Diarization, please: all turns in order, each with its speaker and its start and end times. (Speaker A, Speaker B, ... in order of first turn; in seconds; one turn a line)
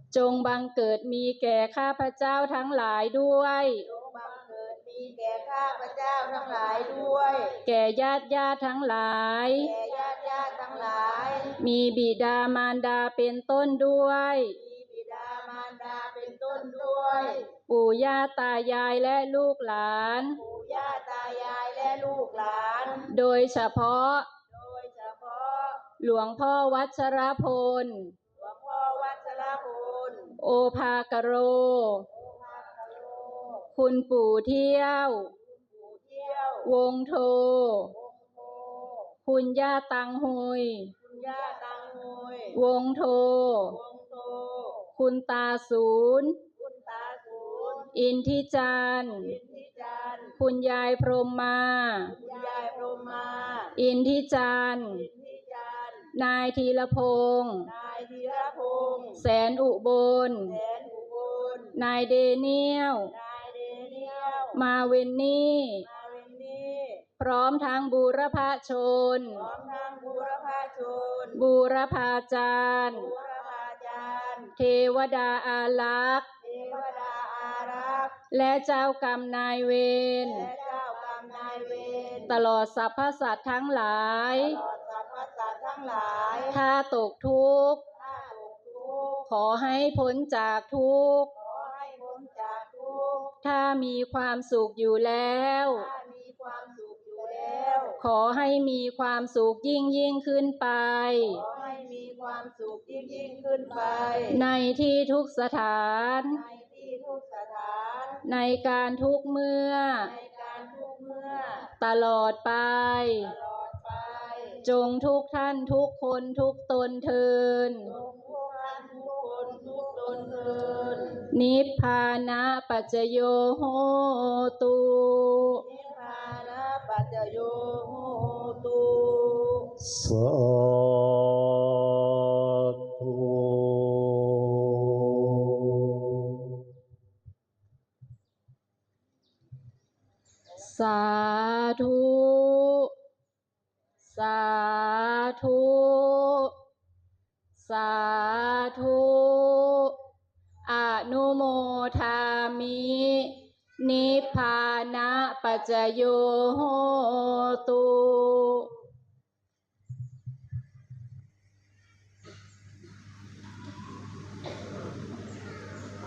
Speaker A: 0.1-3.9
Speaker B: 3.8-7.6
Speaker A: 7.7-9.7
Speaker B: 9.6-11.6
Speaker A: 11.6-14.6
Speaker B: 14.6-17.5
Speaker A: 17.7-20.4
Speaker B: 20.4-23.1
Speaker A: 23.1-24.3
Speaker B: 24.5-25.8
Speaker A: 26.0-28.1
Speaker B: 28.4-30.3
Speaker A: 30.4-32.1
Speaker B: 32.1-33.7
Speaker A: 33.7-35.3
Speaker B: 35.5-36.7
Speaker A: 36.6-37.9
Speaker B: 38.0-39.1
Speaker A: 39.2-40.9
Speaker B: 41.0-42.6
Speaker A: 42.5-43.8
Speaker B: 43.7-44.9
Speaker A: 45.0-46.4
Speaker B: 46.6-47.9
Speaker A: 47.9-49.3
Speaker B: 49.2-50.4
Speaker A: 50.4-52.1
Speaker B: 52.1-53.7
Speaker A: 53.8-55.1
Speaker B: 54.9-56.1
Speaker A: 56.1-57.7
Speaker B: 57.7-59.2
Speaker A: 59.2-60.6
Speaker B: 60.5-61.8
Speaker A: 61.8-63.1
Speaker B: 63.1-64.6
Speaker A: 64.5-65.9
Speaker B: 65.8-67.0
Speaker A: 67.2-69.4
Speaker B: 69.3-71.4
Speaker A: 71.3-73.1
Speaker B: 72.9-74.5
Speaker A: 74.6-76.3
Speaker B: 76.4-78.2
Speaker A: 78.3-80.5
Speaker B: 80.2-82.3
Speaker A: 82.3-84.6
Speaker B: 84.4-86.6
Speaker A: 86.5-87.8
Speaker B: 88.0-89.2
Speaker A: 89.3-91.3
Speaker B: 91.3-93.3
Speaker A: 93.4-95.9
Speaker B: 95.8-98.0
Speaker A: 98.0-101.4
Speaker B: 101.3-104.4
Speaker A: 104.3-106.4
Speaker B: 106.3-108.2
Speaker A: 108.2-110.1
Speaker B: 110.1-111.7
Speaker A: 111.8-113.3
Speaker B: 113.2-114.6
Speaker A: 114.6-117.9
Speaker B: 117.9-121.2
Speaker A: 121.3-125.6
Speaker B: 125.6-129.7
Speaker C: 129.8-136.7
Speaker A: 140.6-142.9
Speaker A: 144.1-146.5
Speaker A: 147.6-150.0
Speaker A: 150.7-158.7